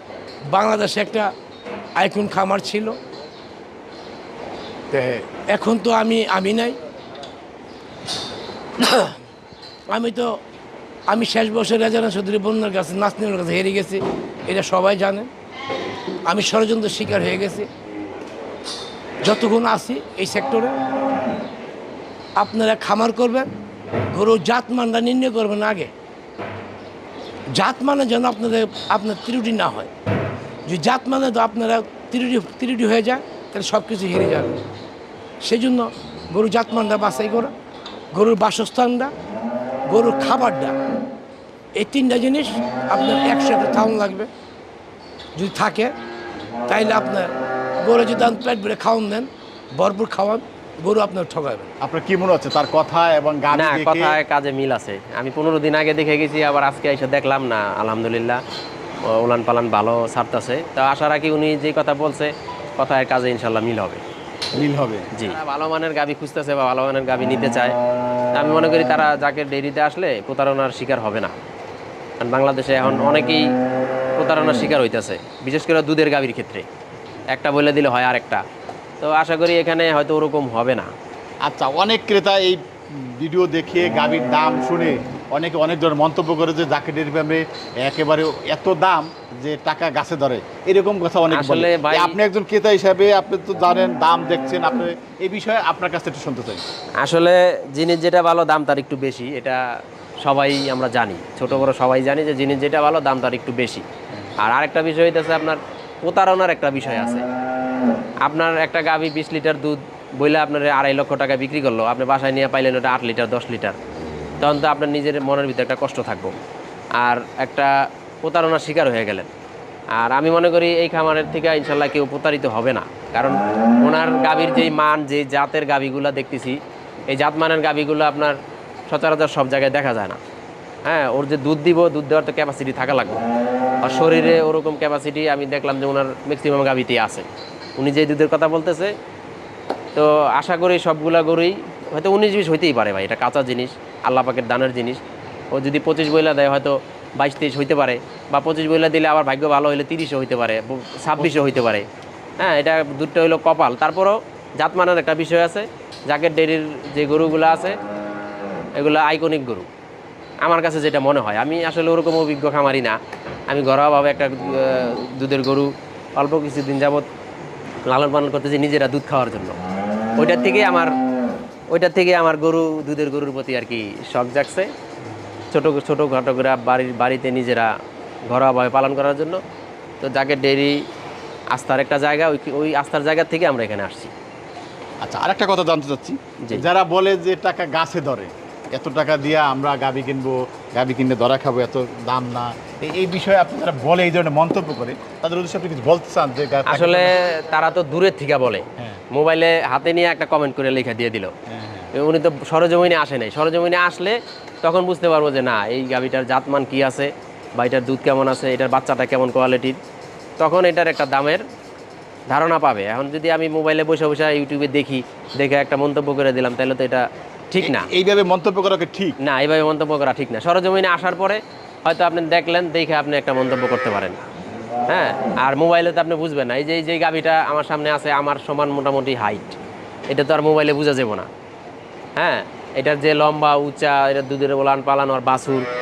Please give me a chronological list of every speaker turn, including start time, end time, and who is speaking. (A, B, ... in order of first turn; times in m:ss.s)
0:00.5-0:01.3 A
0:02.0-0:03.0 A
0:04.9-0:06.8 A
0:08.8-0:09.2 A
0:09.9-0:10.4 A
0:11.1-0:15.3 A
0:16.2-0:17.7 A
0:19.2-0:20.8 A
0:22.4-0:23.5 A
0:24.1-0:25.9 A
0:27.5-0:29.9 A
0:30.6-0:34.6 A
0:35.4-0:37.5 A
0:38.1-0:39.1 A
0:39.8-0:40.8 A
0:41.7-0:44.3 A
0:45.3-0:45.9 A
0:46.7-0:51.7 A
0:51.8-0:54.2 B
0:53.5-0:58.4 C
0:59.1-1:04.0 C
1:04.5-1:05.1 B
1:05.1-1:07.8 C
1:08.4-1:11.3 C
1:12.2-1:13.5 C
1:14.2-1:16.6 C
1:17.3-1:18.4 C
1:19.0-1:20.9 C
1:21.4-1:36.6 B
1:31.3-1:32.1 C
1:37.0-1:39.6 C
1:40.2-1:43.8 C
1:44.4-1:47.3 C
1:48.2-1:53.8 C
1:54.4-1:56.3 C
1:57.0-1:57.7 C
1:58.2-1:59.3 C
2:00.0-2:08.4 C
2:08.9-2:10.2 C
2:10.8-2:13.2 C
2:13.8-2:17.2 C
2:17.8-2:18.9 C
2:19.9-2:25.0 C
2:25.5-2:31.9 C
2:31.2-2:31.5 B
2:32.4-2:37.8 C
2:38.8-2:39.7 C
2:40.4-2:43.0 C
2:43.5-2:47.1 C
2:47.8-2:49.6 C
2:50.2-2:50.9 C
2:51.7-2:54.7 C
2:55.5-2:57.7 C
2:58.3-2:59.4 C
3:00.0-3:00.7 C
3:01.5-3:04.1 C
3:05.0-3:17.1 B
3:16.7-3:21.3 C
3:21.5-3:21.9 B
3:22.0-3:29.8 C
3:30.4-3:31.4 C
3:32.3-3:37.9 C
3:37.6-3:39.2 B
3:39.2-3:44.2 C
3:44.9-3:49.6 C
3:50.1-3:51.3 C
3:52.2-3:55.7 C